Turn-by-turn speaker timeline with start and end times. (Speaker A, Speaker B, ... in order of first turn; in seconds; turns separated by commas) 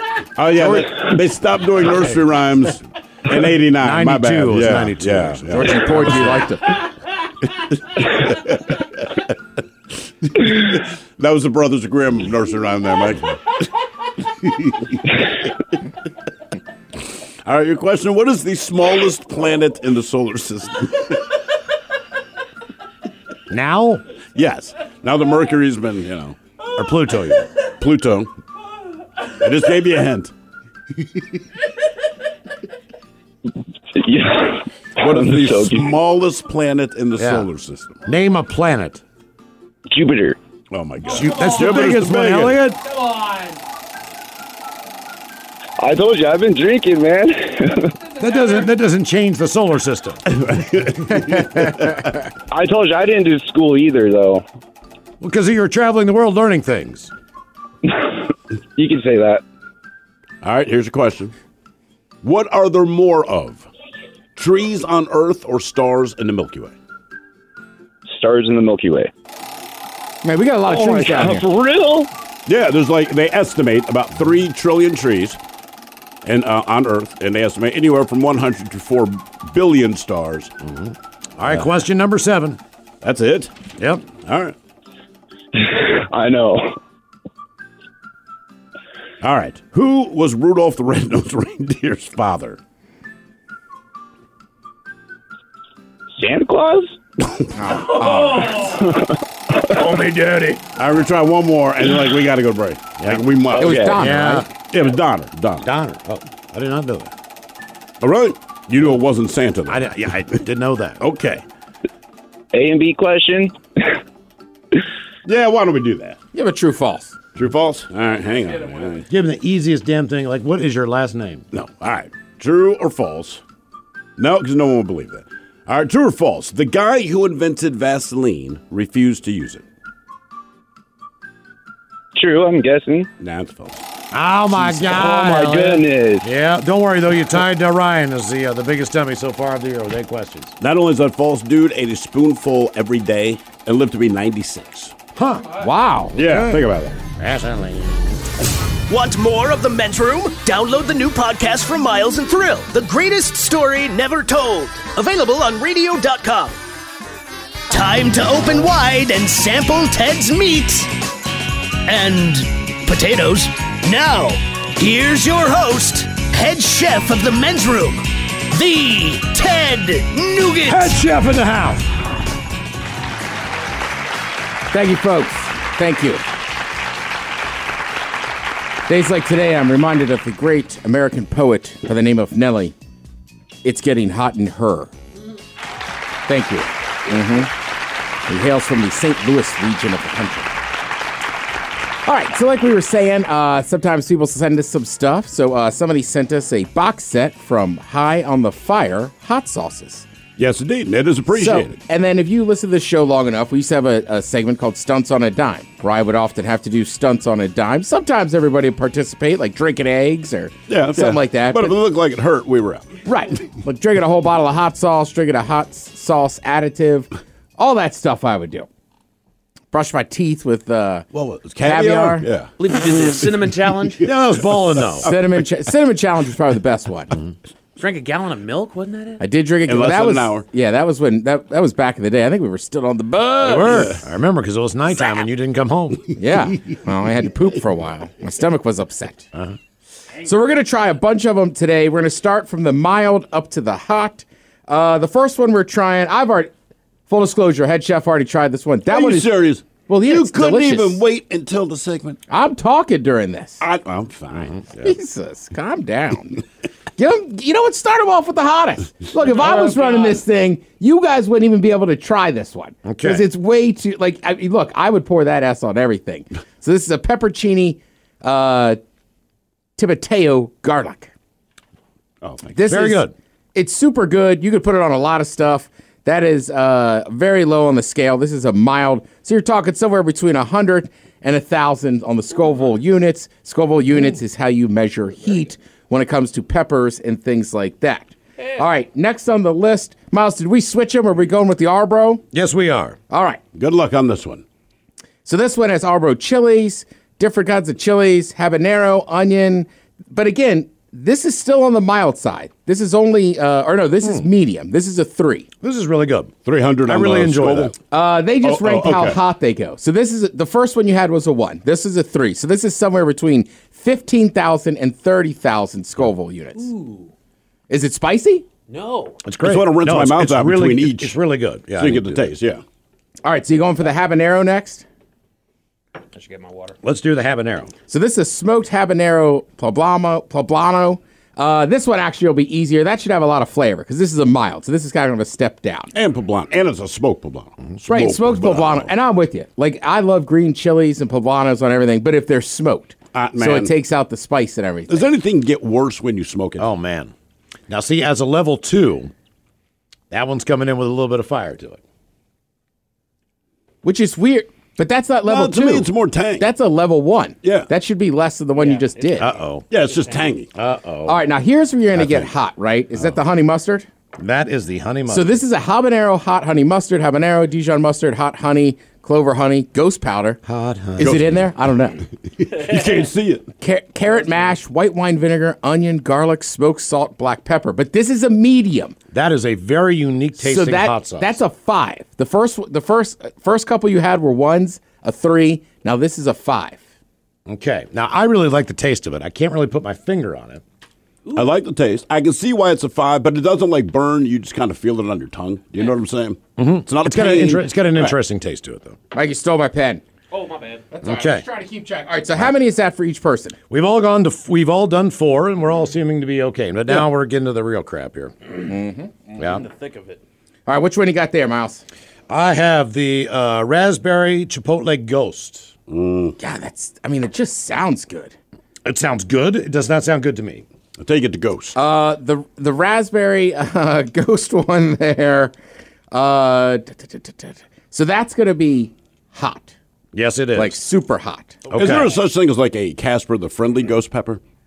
Speaker A: 0.3-6.4, Speaker B: 0.6-0.8, Speaker C: 3.8-6.4, Speaker B: 5.5-6.8, Speaker A: 7.6-9.2, Speaker A: 10.3-13.6, Speaker A: 14.4-15.0, Speaker A: 17.4-21.3, Speaker C: 23.5-24.0, Speaker A: 24.3-26.4, Speaker C: 26.7-27.5, Speaker A: 27.6-28.3, Speaker A: 29.3-30.3, Speaker D: 33.9-36.0, Speaker A: 35.0-38.0, Speaker C: 37.1-37.5, Speaker C: 38.0-39.0, Speaker D: 39.9-40.4, Speaker A: 40.7-42.6, Speaker E: 41.1-41.8, Speaker C: 41.1-42.8, Speaker E: 42.8-43.6, Speaker D: 45.8-47.9, Speaker C: 48.2-50.2, Speaker A: 50.3-52.0, Speaker D: 52.5-54.4, Speaker C: 55.2-57.1, Speaker D: 57.8-59.4, Speaker A: 60.4-61.3, Speaker A: 62.2-63.7, Speaker A: 64.3-66.7, Speaker D: 68.1-69.1, Speaker B: 70.2-71.5, Speaker D: 70.6-72.1, Speaker A: 72.5-75.4, Speaker A: 76.2-80.5, Speaker C: 80.6-82.6, Speaker A: 81.4-81.7, Speaker A: 83.0-83.6, Speaker C: 83.8-84.0, Speaker A: 84.1-84.5, Speaker D: 85.5-86.8, Speaker A: 89.2-92.6, Speaker D: 96.2-97.0, Speaker B: 97.5-98.8, Speaker D: 98.7-99.0, Speaker E: 99.9-100.6, Speaker A: 100.7-103.9, Speaker C: 103.0-103.2, Speaker B: 103.5-104.5, Speaker D: 103.6-104.0, Speaker C: 104.0-104.5, Speaker A: 104.6-105.7, Speaker C: 105.6-107.1, Speaker A: 108.0-109.9, Speaker C: 109.7-111.0, Speaker A: 111.0-111.4, Speaker D: 112.5-113.9, Speaker A: 115.2-116.2, Speaker B: 116.3-117.2, Speaker A: 117.3-119.1, Speaker C: 119.1-121.4, Speaker A: 121.5-123.4, Speaker A: 124.2-129.6, Speaker D: 132.1-133.1, Speaker A: 133.2-133.8, Speaker C: 134.1-140.5, Speaker D: 134.7-136.3, Speaker A: 140.6-144.9, Speaker C: 145.2-145.6, Speaker B: 145.6-146.2, Speaker A: 146.1-147.0, Speaker C: 146.2-146.6, Speaker C: 147.2-148.2, Speaker F: 148.9-156.6, Speaker F: 157.7-160.9, Speaker F: 161.8-171.0, Speaker C: 170.7-171.8, Speaker B: 174.7-176.2, Speaker B: 178.9-182.7, Speaker B: 183.6-184.9, Speaker B: 186.3-187.5, Speaker B: 188.3-190.5, Speaker B: 192.1-200.1, Speaker A: 200.4-201.8, Speaker B: 201.3-211.8, Speaker A: 210.7-213.0, Speaker B: 213.0-218.7, Speaker B: 219.7-221.1, Speaker A: 221.1-222.5, Speaker B: 221.6-222.3, Speaker E: 222.6-224.1, Speaker A: 224.0-225.1, Speaker C: 224.0-225.1, Speaker B: 225.0-227.2, Speaker E: 227.8-229.2, Speaker B: 229.2-234.0, Speaker A: 229.7-230.5, Speaker C: 233.4-236.1, Speaker B: 236.2-239.3, Speaker B: 240.2-246.5, Speaker B: 247.1-251.0, Speaker A: 248.9-252.2, Speaker B: 252.3-253.6, Speaker A: 253.6-254.7, Speaker B: 254.8-256.4, Speaker B: 257.0-268.8, Speaker E: 259.4-260.1, Speaker C: 262.8-263.3, Speaker B: 269.8-271.1, Speaker A: 272.2-272.6, Speaker B: 272.5-292.2, Speaker C: 272.7-273.1, Speaker C: 292.3-293.0, Speaker B: 293.1-293.4, Speaker A: 293.5-294.4, Speaker B: 295.2-305.5, Speaker C: 305.6-306.3, Speaker A: 306.4-307.7, Speaker C: 306.9-307.7, Speaker B: 307.9-316.7, Speaker A: 308.4-309.2, Speaker E: 316.6-317.1, Speaker B: 317.7-318.5, Speaker E: 318.7-319.2, Speaker C: 319.2-322.3, Speaker A: 319.4-321.2, Speaker A: 321.7-322.6, Speaker B: 323.2-324.8, Speaker E: 326.1-326.8, Speaker C: 326.8-327.7, Speaker B: 327.9-335.9, Speaker A: 335.9-338.9, Speaker B: 337.9-345.1, Speaker A: 343.1-343.7, Speaker A: 344.9-346.7, Speaker C: 346.6-347.1, Speaker C: 347.7-349.1, Speaker C: 350.1-351.8, Speaker B: 353.8-359.3, Speaker A: 355.2-356.5, Speaker A: 357.4-357.7, Speaker E: 358.6-359.3, Speaker C: 359.2-359.6, Speaker A: 359.7-360.5, Speaker E: 359.9-360.3, Speaker C: 360.5-361.2, Speaker B: 361.0-363.9, Speaker A: 361.9-362.3, Speaker C: 364.2-365.4, Speaker B: 365.1-370.4, Speaker C: 370.4-371.2, Speaker B: 371.0-372.1, Speaker A: 371.0-371.5, Speaker A: 372.4-373.5, Speaker B: 373.6-378.9, Speaker C: 379.1-381.4, Speaker B: 380.4-386.8, Speaker C: 387.5-390.6, Speaker A: 391.3-398.2, Speaker C: 396.6-399.0, Speaker B: 399.1-400.0, Speaker E: 400.3-400.9, Speaker B: 400.9-403.6, Speaker C: 401.0-401.4, Speaker C: 403.7-408.4, Speaker B: 408.6-409.1, Speaker E: 409.3-410.2, Speaker C: 409.4-409.6, Speaker B: 410.7-411.8, Speaker C: 412.3-415.7, Speaker A: 415.9-416.4, Speaker B: 416.4-418.3, Speaker C: 418.8-420.6, Speaker A: 421.0-421.8, Speaker B: 421.8-425.5, Speaker B: 426.1-429.8, Speaker C: 430.1-430.8, Speaker B: 430.5-431.6, Speaker C: 431.7-432.2, Speaker A: 431.7-434.4